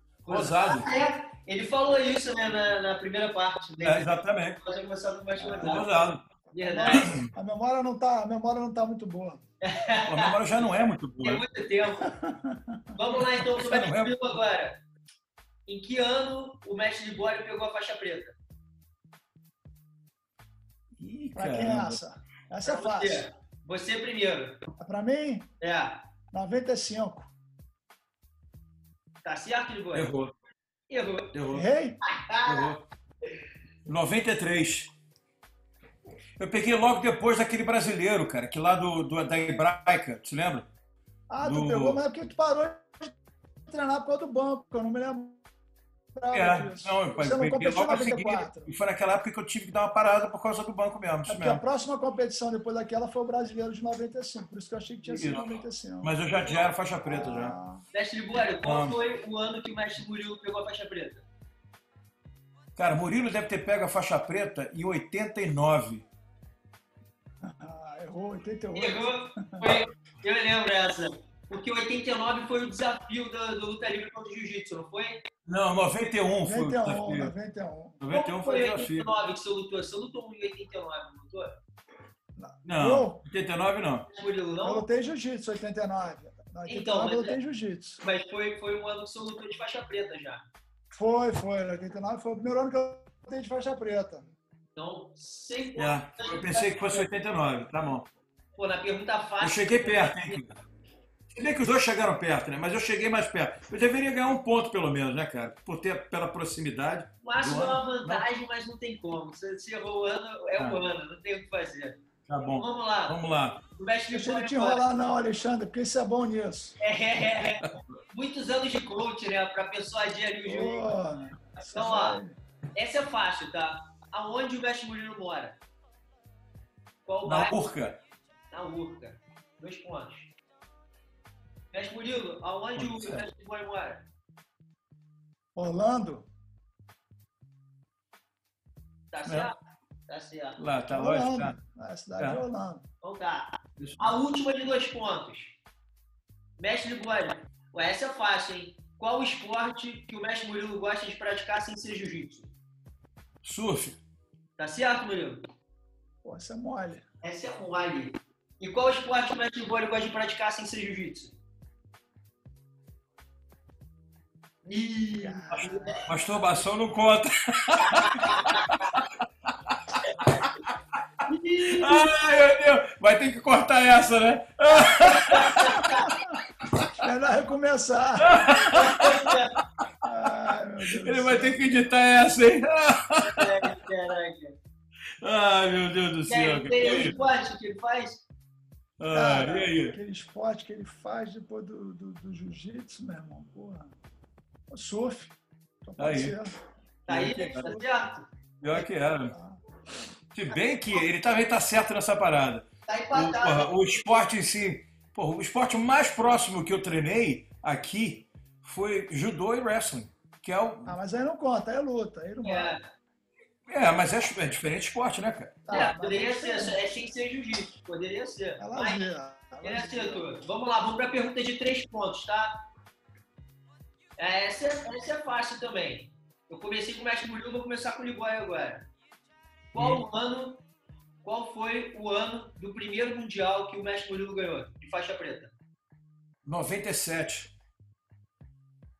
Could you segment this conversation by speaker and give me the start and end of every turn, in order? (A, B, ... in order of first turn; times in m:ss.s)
0:00.2-0:06.0 A
0:00.3-0:00.9 B
0:03.8-0:04.6 B
0:05.4-0:05.8 C
0:05.6-0:06.2 B
0:06.5-0:07.1 A
0:06.6-0:09.4 C
0:06.8-0:07.3 B
0:09.6-0:10.4 A
0:10.0-0:11.4 B
0:11.2-0:12.1 A
0:12.1-0:13.0 C
0:13.0-0:14.8 A
0:13.4-0:14.2 B
0:15.7-0:18.3 A
0:21.0-0:22.0 B
0:21.4-0:23.2 C
0:22.6-0:24.6 A
0:24.8-0:25.5 C
0:25.6-0:26.0 A
0:26.3-0:27.3 C
0:29.2-0:30.1 A
0:29.9-0:30.3 B
0:30.9-0:31.3 A
0:31.3-0:31.6 B
0:31.5-0:32.0 C
0:32.0-0:32.7 A
0:32.4-0:32.8 B
0:33.8-0:34.9 B
0:36.4-0:40.7 B
0:41.3-0:43.1 C
0:41.4-0:42.0 B
0:43.7-0:45.4 C
0:46.1-0:48.7 C
0:46.3-0:51.6 B
0:51.3-0:56.2 C
0:55.0-0:57.5 B
0:57.0-0:57.8 C
0:57.9-1:01.2 A
0:58.6-0:59.0 B
1:02.8-1:06.0 B
1:07.4-1:09.8 C
1:08.7-1:15.2 A
1:15.4-1:17.3 B
1:16.4-1:18.0 C
1:18.0-1:19.1 B
1:18.1-1:21.5 A
1:22.4-1:23.2 C
1:22.6-1:24.1 B
1:24.1-1:24.8 A
1:24.6-1:28.0 C
1:26.7-1:27.4 A
1:28.0-1:30.4 A
1:30.9-1:34.3 C
1:34.8-1:37.1 A
1:35.8-1:38.1 B
1:38.6-1:40.4 A
1:39.4-1:40.6 B
1:41.3-1:48.2 B
1:47.2-1:52.0 A
1:52.3-1:53.6 B
1:52.6-1:53.2 A
1:53.7-1:54.9 A
1:54.1-1:56.8 C
1:56.8-2:01.0 A
2:00.4-2:02.4 C
2:01.6-2:02.2 A
2:02.7-2:05.6 A
2:07.0-2:07.6 A
2:07.2-2:08.0 B
2:08.5-2:10.3 A
2:11.7-2:14.0 A
2:12.8-2:13.2 B
2:15.6-2:16.3 C
2:19.1-2:19.5 A
2:19.2-2:19.5 B
2:20.1-2:20.6 A
2:20.6-2:21.6 B
2:20.9-2:22.8 C
2:22.2-2:22.4 B
2:23.0-2:25.5 A
2:23.8-2:24.1 B
2:26.6-2:32.5 A
2:33.4-2:34.0 B
2:34.6-2:35.4 A
2:36.2-2:37.0 C
2:37.2-2:41.3 A
2:44.6-2:46.1 A
2:45.1-2:46.0 C
2:45.5-2:49.1 B
2:47.8-2:48.7 A
2:49.7-2:50.5 B
2:51.2-2:52.1 A
2:51.6-2:56.1 B
2:55.0-2:56.1 A
2:55.9-2:56.3 C
2:56.6-2:56.9 B
2:57.0-2:58.7 C
2:58.2-2:59.4 B
2:58.7-2:59.6 A
3:00.0-3:01.9 C
3:00.9-3:03.7 B
3:03.2-3:04.6 A
3:05.2-3:07.2 B
3:06.3-3:08.2 A
3:06.8-3:07.3 C
3:09.0-3:10.0 B
3:09.1-3:13.9 C
3:14.7-3:16.6 C
3:16.0-3:16.4 B
3:17.0-3:18.3 A
3:17.1-3:17.7 B
3:17.5-3:17.8 C
3:18.6-3:19.3 B
3:19.3-3:19.6 C
3:20.3-3:31.0 B
3:20.5-3:21.0 A
3:22.9-3:23.8 A
3:30.8-3:32.7 C
3:32.4-3:32.8 A
3:33.7-3:35.6 B
3:35.6-3:36.8 C
3:35.7-3:39.1 A
3:38.6-3:40.2 C
3:39.6-3:42.6 A
3:44.2-3:48.9 A
3:49.7-3:50.6 A
3:49.8-3:50.0 B
3:51.2-3:55.5 A
3:56.4-3:57.5 B